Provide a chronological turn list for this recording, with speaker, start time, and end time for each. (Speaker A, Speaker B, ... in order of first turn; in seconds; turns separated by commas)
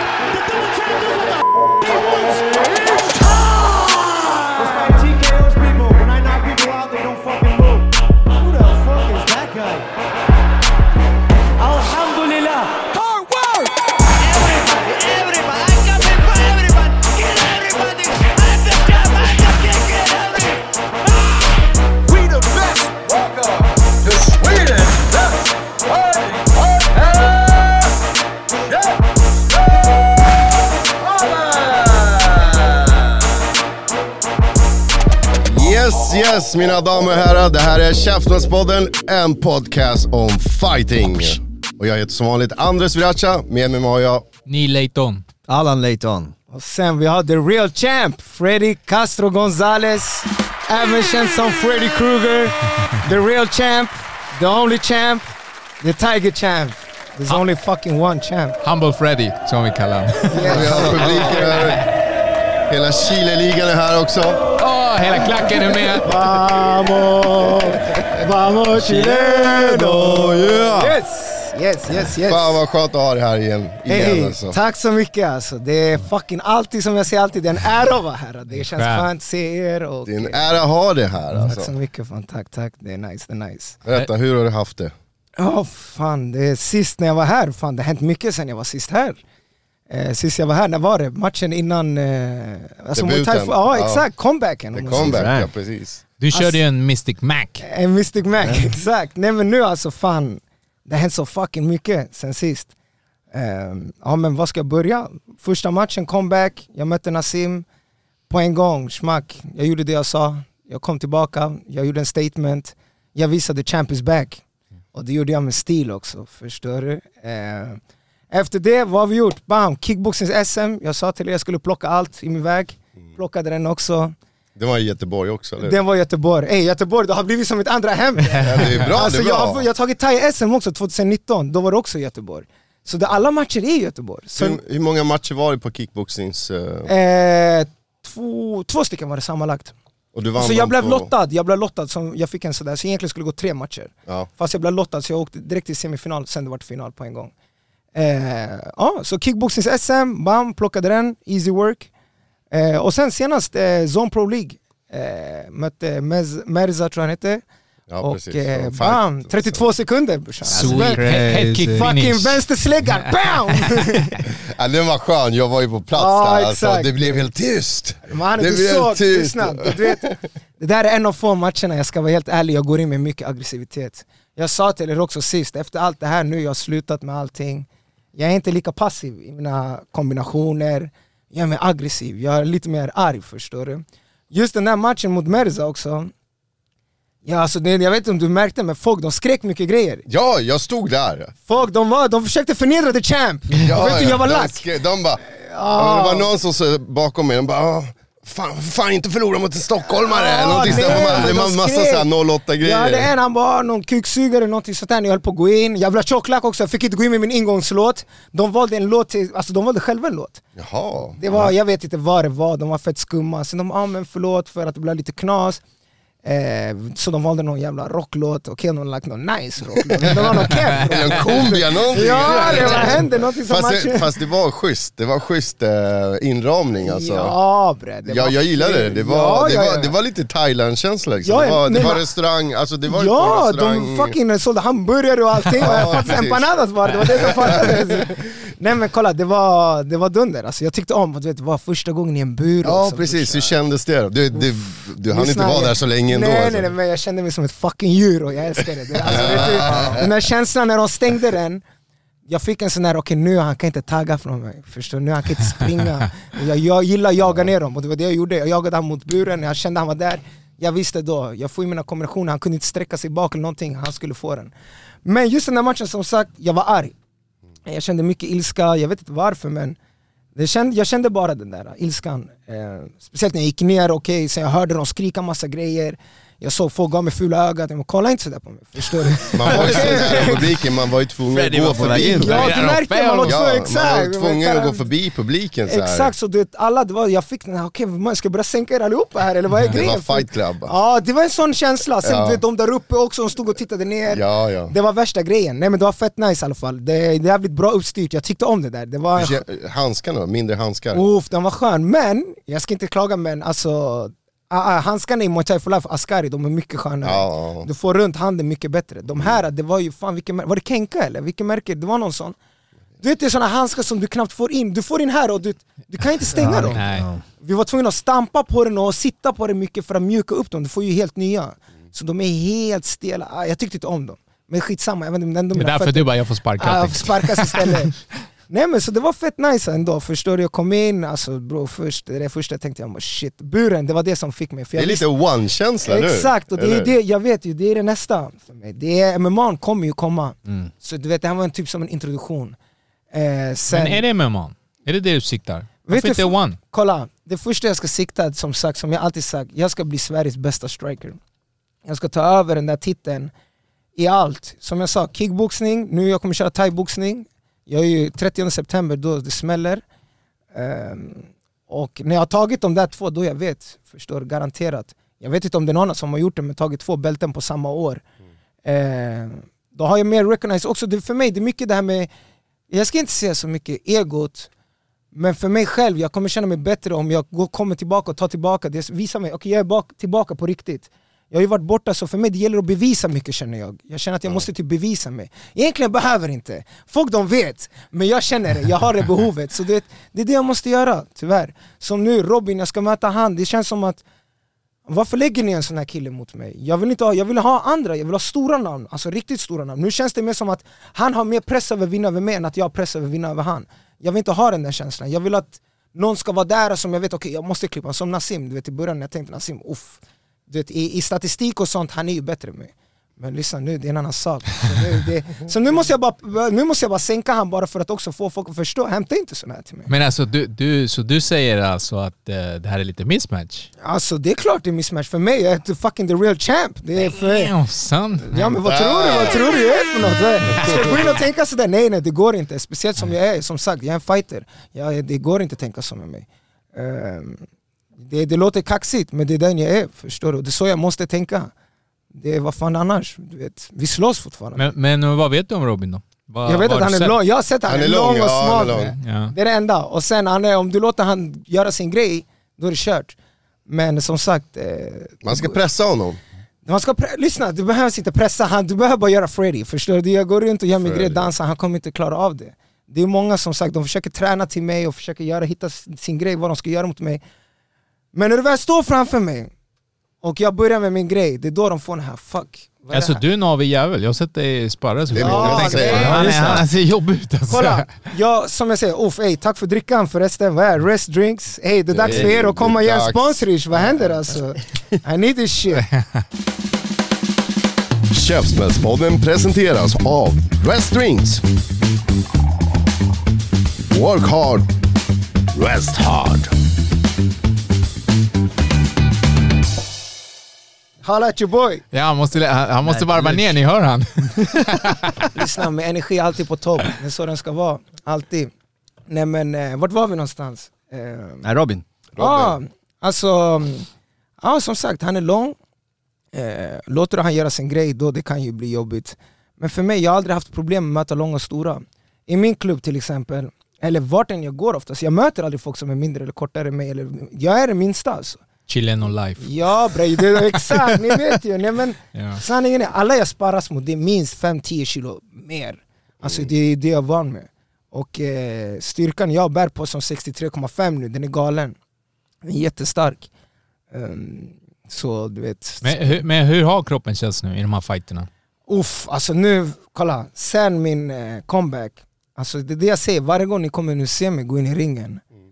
Speaker A: 0.2-9.9, Speaker A: 11.6-20.6, Speaker A: 21.2-21.5, Speaker A: 22.1-23.2, Speaker A: 24.2-24.8, Speaker B: 35.4-44.2, Speaker C: 44.5-45.2, Speaker D: 45.5-46.3, Speaker E: 46.5-58.6, Speaker C: 58.6-61.8, Speaker E: 60.3-61.5, Speaker B: 60.4-61.8, Speaker B: 62.7-64.4, Speaker C: 64.5-66.1, Speaker E: 65.9-72.6, Speaker D: 68.7-70.9, Speaker B: 70.2-70.7, Speaker B: 72.0-74.6, Speaker E: 73.9-80.6, Speaker C: 78.5-79.0, Speaker B: 80.0-81.7, Speaker E: 81.3-83.8, Speaker B: 83.9-84.9, Speaker E: 85.4-89.2, Speaker E: 89.9-95.3, Speaker B: 92.9-94.0, Speaker B: 94.7-96.0, Speaker D: 94.9-95.5, Speaker C: 96.2-97.6, Speaker E: 96.3-96.6, Speaker E: 97.6-102.7, Speaker E: 103.3-107.6, Speaker E: 108.3-117.8, Speaker E: 118.3-124.1, Speaker B: 124.5-125.8, Speaker E: 125.6-134.6, Speaker C: 128.3-128.7, Speaker B: 128.3-129.7, Speaker B: 134.4-136.9, Speaker E: 136.9-139.7, Speaker B: 140.1-141.1, Speaker E: 140.4-147.3, Speaker E: 147.9-151.9, Speaker E: 152.5-157.4, Speaker B: 157.9-159.6, Speaker E: 158.0-164.2, Speaker D: 160.5-161.9, Speaker C: 160.5-162.4, Speaker B: 164.5-170.1, Speaker E: 165.9-167.2, Speaker E: 168.1-186.1, Speaker E: 187.2-190.0, Speaker B: 190.1-191.3, Speaker E: 191.5-194.6, Speaker B: 193.6-203.1, Speaker E: 195.2-196.3, Speaker E: 199.8-202.1, Speaker E: 202.6-210.4, Speaker B: 210.6-211.5, Speaker E: 211.2-215.6, Speaker E: 216.2-224.1, Speaker B: 219.9-227.3, Speaker C: 222.4-222.7, Speaker E: 226.8-229.9, Speaker B: 228.1-234.2, Speaker E: 231.2-232.1, Speaker E: 232.9-243.6, Speaker B: 235.6-238.0, Speaker B: 242.6-246.7, Speaker E: 244.3-251.6, Speaker B: 249.0-250.1, Speaker D: 249.2-250.0, Speaker E: 252.3-264.5, Speaker E: 265.1-266.9, Speaker E: 267.7-269.8, Speaker E: 270.4-280.6, Speaker B: 279.3-286.1, Speaker D: 281.3-282.6, Speaker E: 281.9-284.9, Speaker C: 282.3-283.4, Speaker E: 285.7-299.4, Speaker B: 289.7-290.7, Speaker B: 292.0-292.4, Speaker B: 294.1-294.7, Speaker B: 299.2-301.0, Speaker E: 300.9-312.4, Speaker B: 307.0-307.7, Speaker E: 313.0-316.8, Speaker D: 316.4-317.2, Speaker C: 316.5-317.1, Speaker E: 317.4-328.0, Speaker C: 325.6-327.9, Speaker E: 328.5-335.1, Speaker B: 334.8-336.9, Speaker E: 335.8-342.6, Speaker E: 343.1-344.0, Speaker C: 343.7-346.6, Speaker E: 345.9-351.2, Speaker E: 351.9-353.3, Speaker E: 353.9-359.8, Speaker E: 360.5-368.0, Speaker E: 368.6-372.1, Speaker E: 372.7-374.5, Speaker E: 375.1-394.0, Speaker E: 394.9-419.9, Speaker C: 419.9-423.7, Speaker E: 423.8-427.5, Speaker C: 427.0-428.6, Speaker E: 428.3-437.4, Speaker B: 428.6-429.6, Speaker B: 430.5-431.2, Speaker E: 438.0-441.5, Speaker E: 442.1-444.6, Speaker C: 444.6-447.1, Speaker E: 446.4-453.1, Speaker B: 447.7-448.9, Speaker C: 449.0-449.3, Speaker E: 453.7-455.6, Speaker B: 455.2-456.2, Speaker E: 456.7-467.2, Speaker B: 460.8-461.3, Speaker E: 468.1-469.5, Speaker E: 470.2-473.2, Speaker C: 472.9-477.9, Speaker B: 475.1-476.4, Speaker E: 475.2-476.6, Speaker D: 475.6-476.7, Speaker E: 477.5-485.9, Speaker B: 481.9-484.3, Speaker C: 485.8-486.2, Speaker B: 488.1-491.4, Speaker B: 493.9-494.7, Speaker B: 495.5-496.6, Speaker E: 501.0-501.8, Speaker C: 501.9-505.3, Speaker D: 502.8-503.6, Speaker E: 505.3-508.5, Speaker E: 509.1-511.5, Speaker D: 511.4-511.8, Speaker B: 512.1-512.6, Speaker E: 512.2-513.9, Speaker E: 514.4-515.5, Speaker E: 516.3-528.4, Speaker C: 528.7-529.5, Speaker E: 529.4-541.8, Speaker C: 532.1-532.4, Speaker B: 536.2-536.5, Speaker E: 542.4-543.3, Speaker E: 543.9-546.2, Speaker C: 545.8-548.3, Speaker E: 548.7-555.2